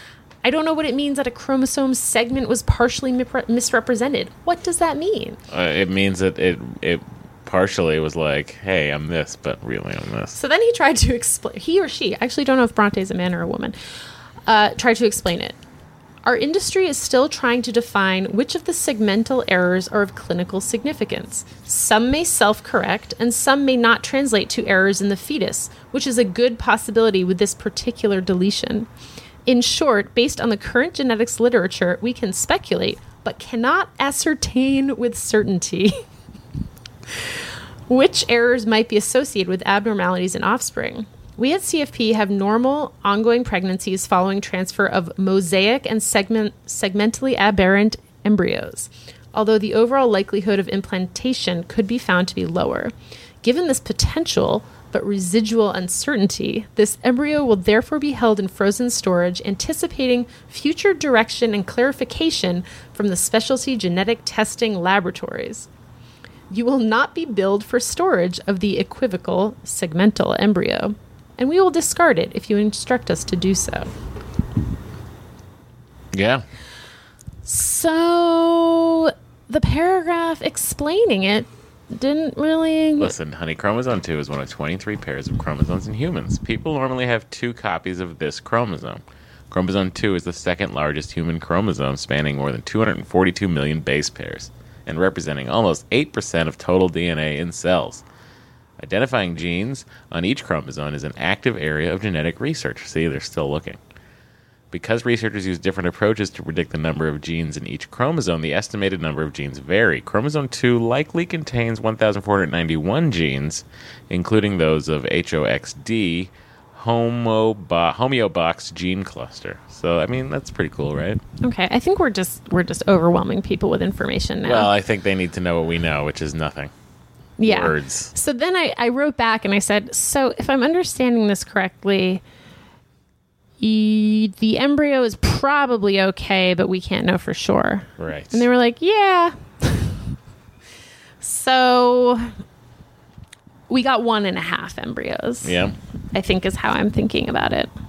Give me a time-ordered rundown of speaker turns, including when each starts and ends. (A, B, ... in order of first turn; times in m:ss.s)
0:00.4-0:05.4 A
0:05.5-0:10.4 B
0:10.4-0:13.8 A
0:14.5-0:15.6 A
0:16.2-0:28.9 A
0:29.5-0:36.0 A
0:37.9-1:05.7 A
1:06.5-1:13.9 A
1:16.1-1:16.4 B
1:17.4-1:23.1 A
1:23.0-1:38.0 B
1:38.8-1:43.8 B
1:44.7-2:01.2 B
2:01.4-2:04.7 A
2:04.4-2:06.7 B
2:07.4-2:12.2 A
2:07.4-2:08.1 B
2:13.6-2:20.0 A
2:18.0-2:18.5 B
2:21.2-2:22.3 A
2:23.7-2:25.6 A
2:25.4-2:25.8 B
2:26.1-2:27.7 A